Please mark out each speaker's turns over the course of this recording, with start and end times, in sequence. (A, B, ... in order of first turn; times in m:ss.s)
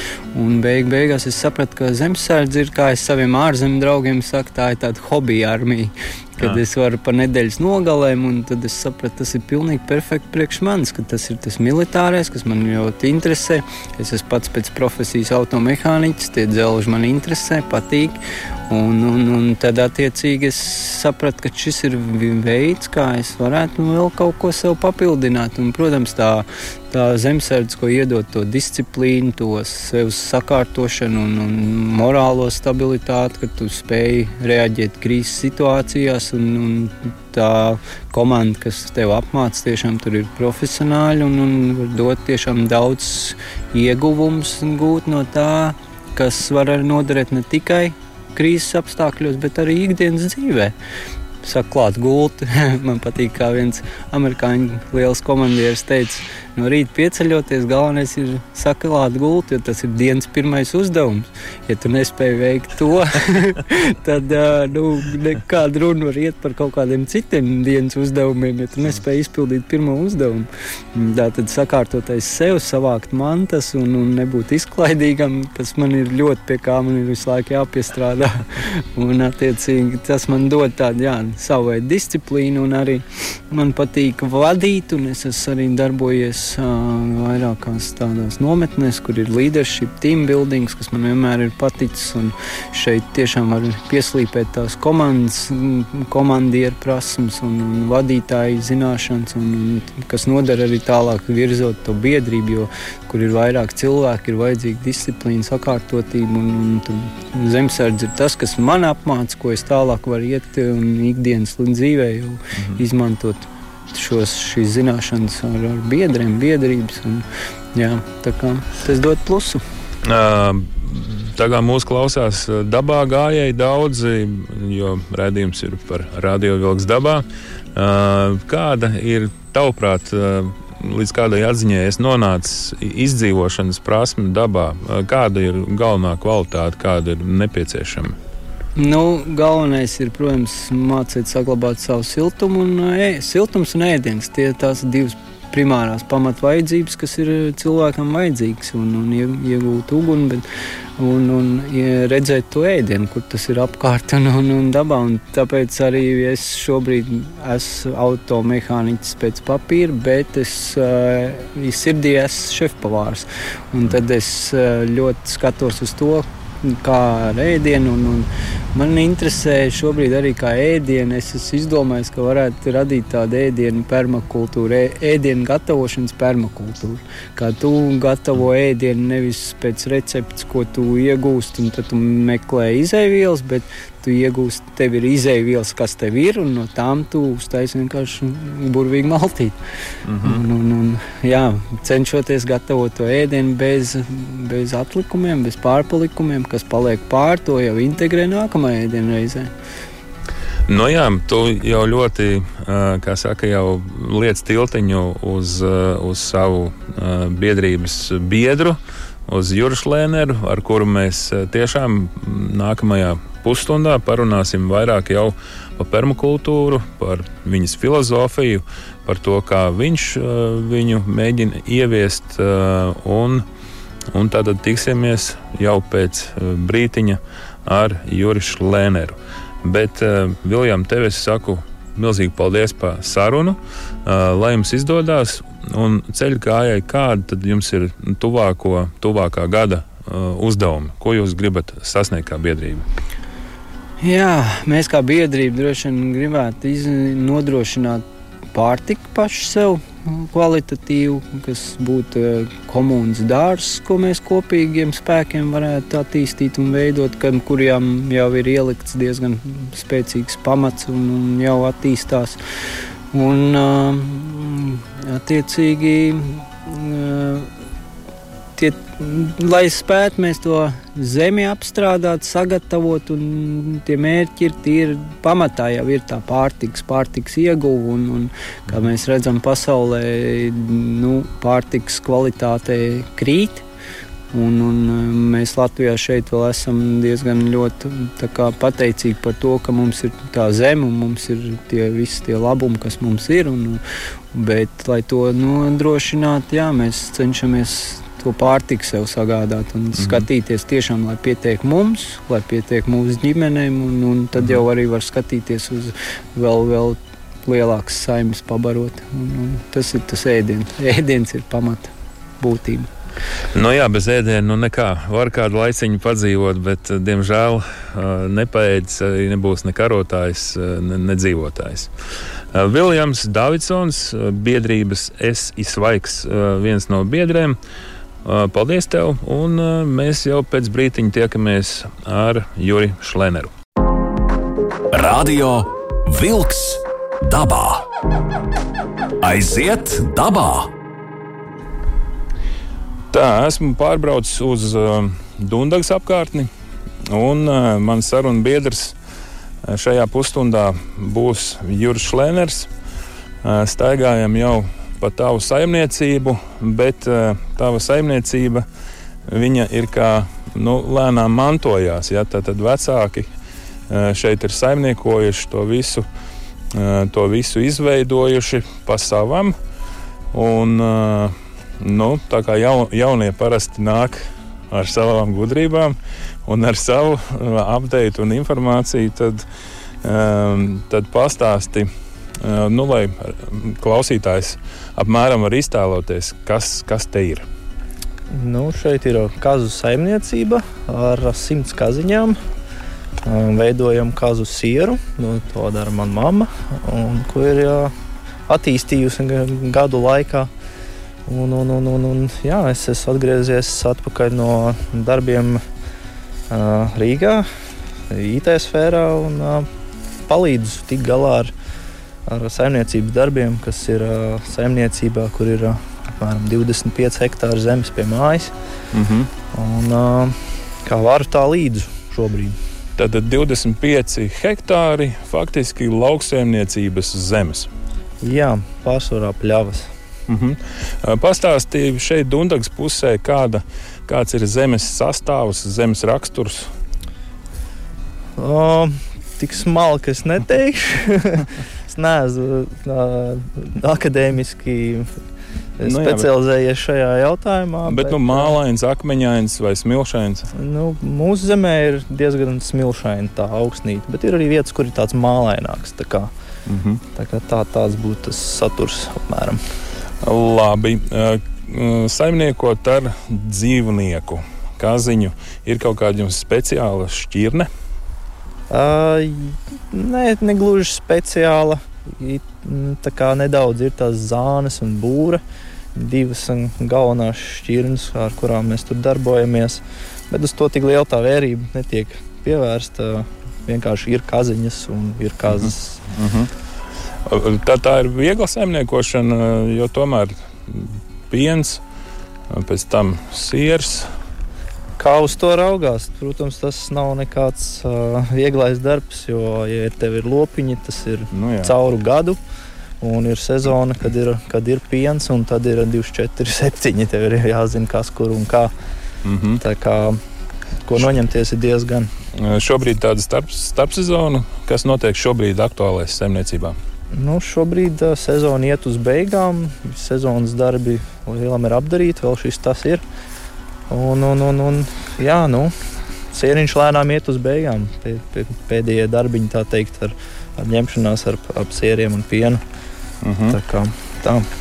0:00.3-0:18.2 A
0:18.7-0:50.7 A
0:51.4-1:59.6 A
2:00.0-2:18.2 B
2:18.8-2:30.5 A
2:31.0-3:09.6 A
3:10.1-3:10.4 B
3:10.2-3:19.5 A
3:20.7-3:43.4 B
3:44.1-4:02.8 B
4:04.0-4:22.4 A
4:23.1-4:27.5 A
4:28.6-4:43.6 A
4:44.3-4:53.8 A
4:54.3-5:12.9 A
5:00.0-5:00.2 B
5:13.5-5:21.9 B
5:22.5-5:27.6 B
5:28.2-5:33.5 B
5:34.9-5:37.9 C
5:39.2-5:40.7 C
5:43.1-5:46.5 B
5:47.1-5:49.0 B
5:49.6-5:52.7 B
5:53.4-5:58.6 B
5:59.3-6:03.3 B
6:03.9-6:06.0 B
6:06.7-6:09.6 B
6:10.3-6:19.4 B
6:20.0-6:21.9 B
6:22.4-6:27.5 B
6:28.3-6:32.4 D
6:33.2-6:37.9 D
6:38.5-6:40.5 D
6:41.3-6:45.6 D
6:46.5-6:47.5 D
6:48.1-6:49.7 D
6:50.3-6:51.5 D
6:52.3-6:58.5 D
6:58.9-6:59.3 B
6:59.5-7:02.6 D
7:03.0-7:07.7 B
7:08.2-7:09.9 D
7:10.3-7:16.7 B
7:18.4-7:25.1 D
7:25.8-7:28.6 D
7:25.8-7:26.3 B
7:27.8-7:30.5 B
7:30.6-7:36.3 D
7:36.7-7:37.0 B
7:37.2-7:39.6 D
7:40.2-7:47.7 B
7:48.7-7:55.4 D
7:56.0-8:06.0 D
8:05.6-8:06.5 B
8:07.3-8:11.8 B
8:12.5-8:14.1 B
8:15.0-8:22.4 D
8:21.3-8:21.7 B
8:23.0-8:28.7 D
8:29.2-8:29.6 B
8:29.6-8:30.2 D
8:30.8-8:32.1 D
8:32.4-8:36.8 B
8:37.2-8:43.0 D
8:43.9-8:45.7 D
8:46.3-8:52.6 D
8:53.2-8:53.6 B
8:53.5-8:54.5 D